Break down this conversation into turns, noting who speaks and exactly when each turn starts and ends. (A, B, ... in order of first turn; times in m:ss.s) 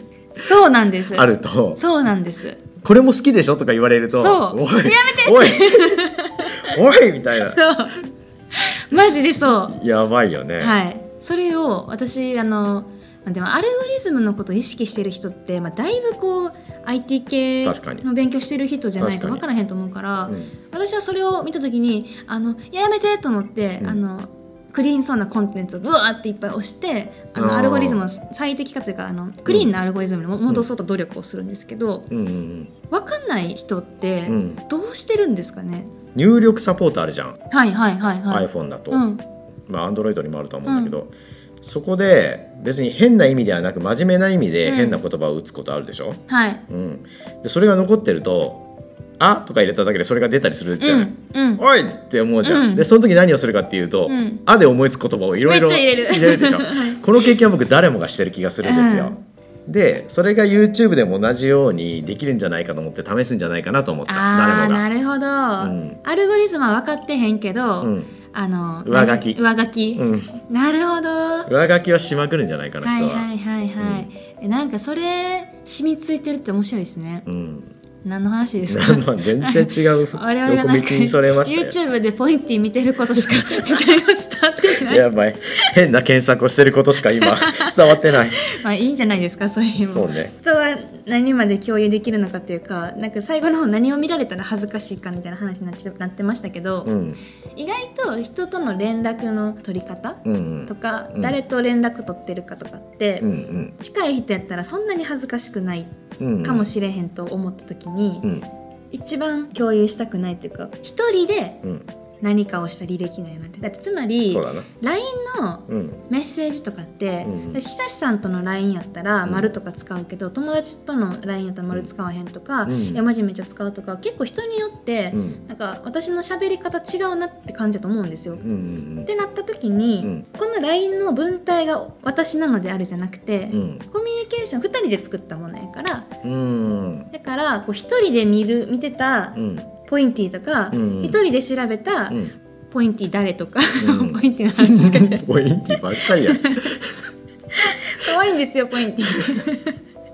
0:00.4-0:02.6 A
0:01.1-0:01.8 B
0:02.8-0:07.7 B
0:04.1-0:06.8 A
0:07.4-0:09.8 A
0:09.7-0:10.8 B
0:10.6-0:32.1 A
0:17.6-0:18.1 B
0:19.0-0:19.4 B
0:27.4-0:28.0 B
0:29.5-0:29.7 B
0:32.1-0:32.7 B
0:32.9-0:35.9 A
0:34.3-0:34.6 B
0:36.1-0:37.4 B
0:37.5-0:39.2 A
0:38.3-0:39.0 B
0:39.7-0:48.6 B
0:40.7-0:40.9 A
0:44.6-0:45.0 A
0:46.3-0:46.6 A
0:49.2-1:04.8 B
0:50.8-0:51.6 A
0:52.4-0:52.9 A
0:54.1-0:54.4 A
0:55.5-0:57.3 A
0:58.6-0:59.2 A
1:04.1-1:11.5 A
1:05.6-1:06.0 B
1:07.8-1:08.1 B
1:08.9-1:09.4 B
1:10.0-1:10.3 B
1:11.5-1:13.3 B
1:12.8-1:17.3 A
1:13.8-1:14.1 B
1:17.3-1:17.7 B
1:18.0-1:25.1 A
1:18.7-1:21.8 B
1:23.2-1:23.8 B
1:24.6-1:28.5 B
1:27.1-1:37.0 A
1:29.8-1:30.3 B
1:36.8-1:37.2 B
1:37.6-1:48.3 A
1:40.2-1:41.4 B
1:43.2-1:43.8 B
1:46.2-1:46.7 B
1:48.9-1:51.6 A
1:52.2-2:08.4 A
1:54.3-1:54.7 B
1:55.7-1:56.0 B
1:57.2-1:57.6 B
1:59.2-1:59.5 B
2:02.7-2:03.0 B
2:05.1-2:05.4 B
2:08.4-2:09.1 B
2:09.1-2:16.1 A
2:13.5-2:13.8 B
2:16.2-2:17.1 B
2:17.1-2:26.8 A
2:19.4-2:19.7 B
2:20.7-2:21.2 B
2:23.8-2:27.0 B
2:27.5-2:29.8 A